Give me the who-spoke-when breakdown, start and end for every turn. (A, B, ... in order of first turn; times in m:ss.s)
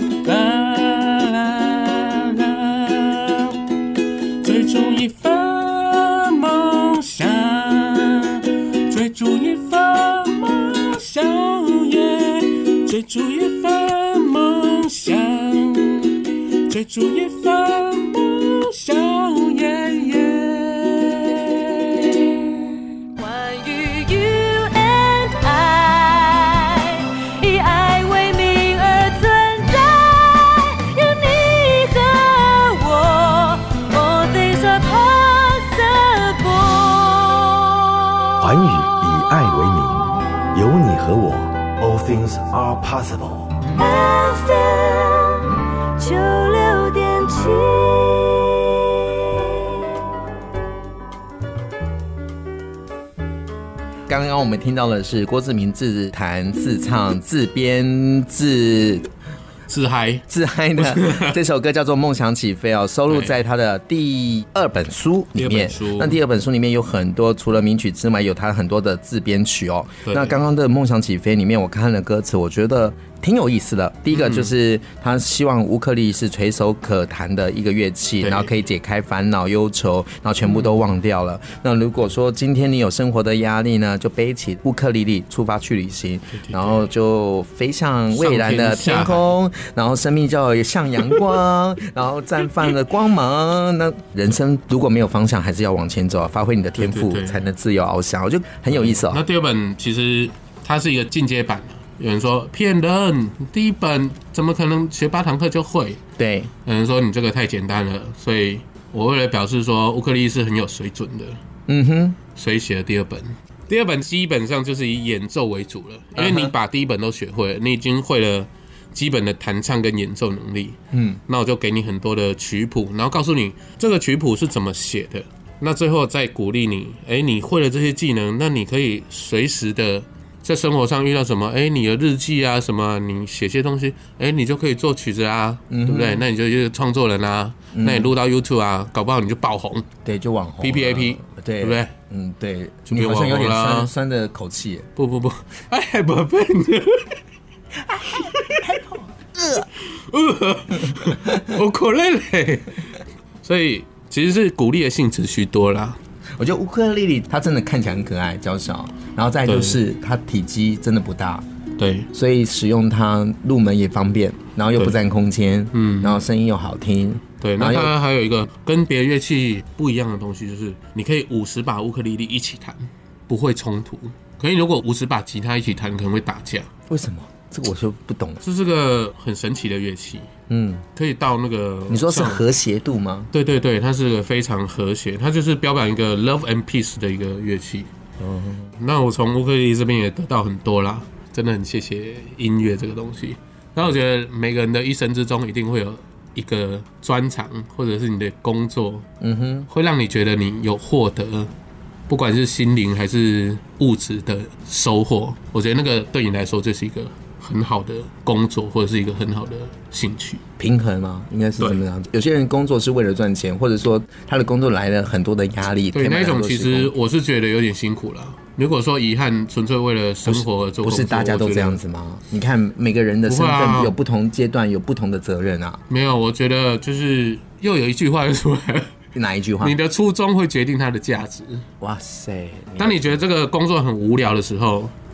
0:00.2-0:03.6 A
0:04.4-0:22.7 A
0:23.2-0:37.7 B
0:38.4-0:43.6 C
0:43.7-0:49.8 B
0:54.1-0:59.1 D
0:59.7-1:00.3 A
1:00.3-1:39.2 D
1:00.8-1:01.4 A
1:03.1-1:03.4 A
1:05.4-1:06.2 A
1:10.0-1:10.4 A
1:14.1-1:14.5 A
1:18.2-1:18.5 A
1:20.5-1:20.8 A
1:26.4-1:26.8 A
1:28.1-1:29.3 A
1:36.8-1:37.4 A
1:38.7-1:46.0 A
1:46.2-1:46.5 D
1:46.6-1:51.4 A
1:51.7-1:52.2 D
1:52.4-2:19.9 A
1:56.2-1:56.5 D
2:00.9-2:01.2 D
2:15.7-2:16.3 D
2:17.7-2:18.1 D
2:20.0-2:24.9 D
2:20.6-2:21.9 A
2:22.9-2:23.9 A
2:25.0-2:27.2 A
2:27.8-2:29.7 D
2:28.2-2:28.6 A
2:29.7-2:36.0 A
2:31.0-2:31.5 D
2:36.4-2:41.4 D
2:39.5-2:39.8 A
2:41.8-2:42.1 A
2:42.1-2:47.9 D
2:45.7-2:46.2 A
2:47.4-2:56.7 A
2:56.9-2:58.4 D
2:58.4-3:00.3 A
3:00.5-3:00.8 D
3:01.0-3:02.4 A
3:01.9-3:03.3 D
3:03.3-3:07.9 A
3:08.2-3:08.7 D
3:08.8-3:19.1 A
3:19.2-3:19.7 D
3:19.7-3:21.5 A
3:22.1-3:30.4 A
3:30.6-3:36.9 D
3:35.9-3:41.8 A
3:40.3-3:45.8 D
3:43.3-3:43.9 A
3:45.9-3:48.9 A
3:49.2-3:49.8 D
3:49.6-3:51.7 A
3:51.8-3:53.2 D
3:52.8-3:54.9 A